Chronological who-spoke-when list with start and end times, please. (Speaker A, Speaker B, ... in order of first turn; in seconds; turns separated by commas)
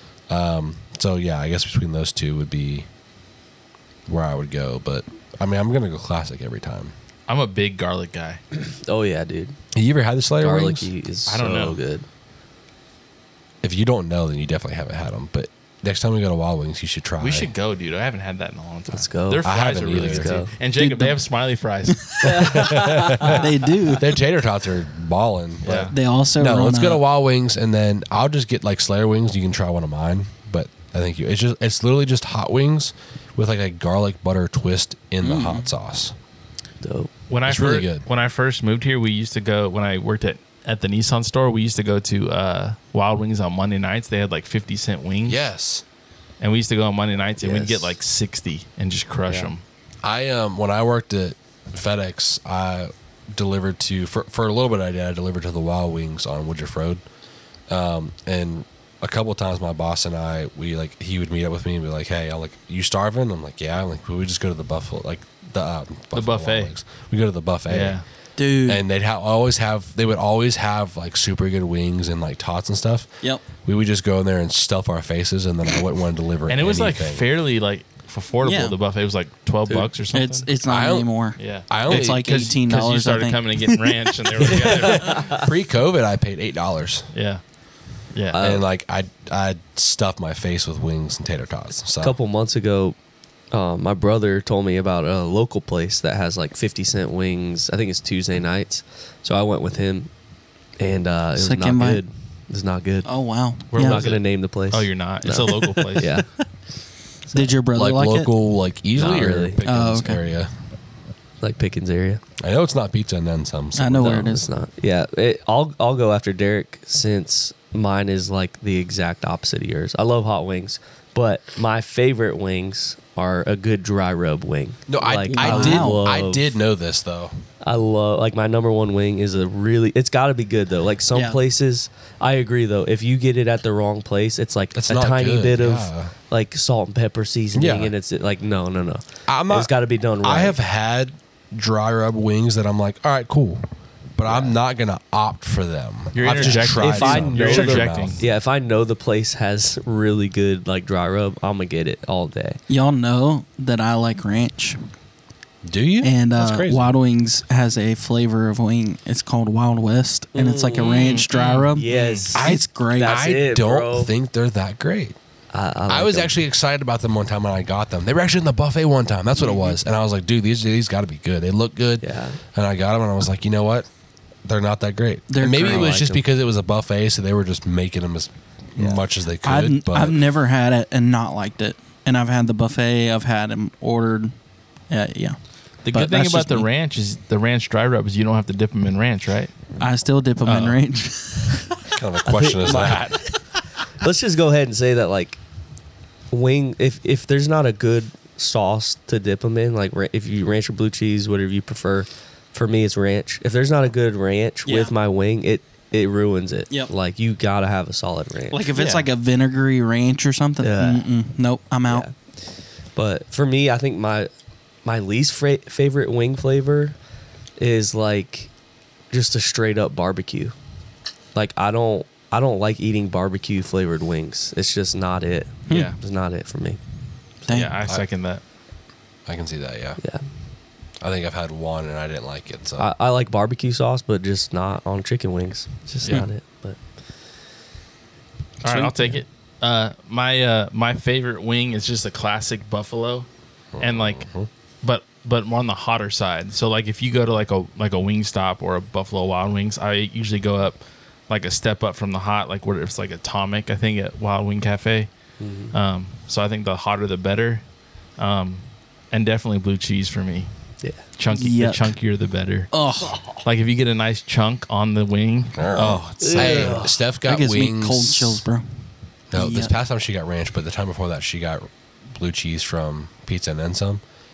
Speaker A: 0.3-2.9, Speaker A: 4.1-6.9, Speaker B: 7.3-8.4, Speaker C: 8.7-9.6, Speaker A: 9.7-10.9, Speaker C: 10.4-12.1, Speaker B: 11.3-11.8, Speaker A: 13.6-17.5, Speaker B: 17.2-22.6, Speaker C: 18.9-20.5, Speaker A: 19.4-20.3, Speaker D: 20.8-21.2, Speaker D: 21.9-22.3, Speaker A: 22.2-36.1, Speaker C: 22.2-23.5, Speaker D: 23.1-24.1, Speaker B: 25.6-25.9, Speaker D: 25.9-27.0, Speaker D: 35.2-35.7, Speaker C: 36.8-37.1, Speaker B: 37.3-45.4, Speaker A: 37.5-38.1, Speaker A: 45.3-45.8, Speaker B: 46.4-49.6, Speaker C: 47.4-47.9, Speaker A: 50.0-57.0, Speaker A: 57.7-68.0, Speaker B: 66.1-66.7, Speaker B: 67.7-68.0, Speaker D: 68.4-68.8, Speaker A: 68.7-73.1, Speaker A: 73.7-77.3, Speaker B: 76.5-80.5, Speaker D: 78.4-78.8, Speaker D: 80.1-84.7, Speaker A: 80.7-81.1, Speaker B: 81.4-85.4, Speaker A: 81.7-82.6, Speaker C: 84.5-85.5, Speaker A: 85.3-87.1, Speaker B: 87.1-87.4, Speaker B: 88.1-88.5, Speaker C: 88.3-88.7, Speaker A: 88.4-92.2, Speaker C: 92.0-93.0, Speaker C: 93.5-100.1, Speaker C: 100.8-103.1, Speaker D: 101.4-102.0, Speaker D: 103.0-104.1, Speaker B: 103.7-106.2, Speaker C: 103.8-106.3, Speaker D: 107.3-108.3, Speaker A: 107.7-110.5, Speaker C: 109.0-109.6, Speaker D: 109.7-110.2, Speaker C: 111.4-112.2, Speaker A: 112.4-114.2, Speaker D: 113.8-114.5, Speaker C: 114.0-126.5, Speaker A: 124.9-127.3, Speaker D: 125.3-126.0, Speaker C: 127.6-140.6, Speaker D: 131.1-131.4, Speaker A: 134.8-136.1, Speaker A: 137.5-137.9, Speaker A: 139.3-143.7, Speaker A: 144.2-148.3, Speaker C: 144.3-144.6, Speaker B: 146.2-148.2, Speaker C: 146.3-152.6, Speaker D: 152.7-154.8, Speaker A: 155.6-156.9, Speaker D: 156.0-163.2, Speaker C: 160.3-161.2, Speaker B: 160.8-162.3, Speaker C: 161.8-164.1, Speaker A: 162.3-165.2, Speaker C: 165.5-166.3, Speaker A: 165.9-173.9, Speaker C: 169.4-169.7, Speaker C: 172.0-172.4, Speaker A: 174.4-180.2, Speaker D: 175.3-175.9, Speaker C: 175.4-176.2, Speaker C: 178.8-179.0, Speaker D: 179.4-184.3, Speaker D: 184.9-185.4, Speaker B: 185.8-189.5, Speaker D: 185.9-186.7, Speaker D: 189.8-191.7, Speaker B: 190.4-190.8, Speaker A: 191.9-193.2, Speaker C: 192.2-193.3, Speaker C: 194.0-195.4, Speaker C: 196.3-208.7, Speaker D: 204.7-205.0, Speaker D: 208.5-212.1, Speaker B: 208.7-209.1, Speaker C: 210.6-211.1, Speaker C: 211.9-212.3, Speaker C: 212.9-214.3, Speaker C: 214.8-217.0, Speaker C: 217.6-218.5, Speaker C: 219.1-220.6, Speaker C: 221.3-226.8, Speaker D: 225.7-225.9, Speaker B: 225.7-226.0, Speaker D: 227.5-227.8, Speaker B: 227.5-228.4, Speaker A: 229.3-230.0, Speaker C: 230.0-230.2, Speaker A: 231.0-232.9, Speaker C: 232.8-236.8, Speaker D: 238.6-239.2, Speaker B: 238.6-243.3, Speaker A: 243.7-244.5, Speaker B: 243.8-244.2, Speaker B: 244.8-255.1, Speaker C: 255.4-255.7, Speaker B: 255.7-257.6, Speaker B: 258.2-260.5, Speaker B: 261.2-262.7, Speaker D: 261.3-261.9, Speaker D: 262.7-263.2, Speaker B: 263.4-266.9, Speaker A: 265.6-268.4, Speaker C: 265.8-266.9, Speaker D: 267.2-268.6, Speaker A: 269.3-274.0, Speaker D: 269.3-269.7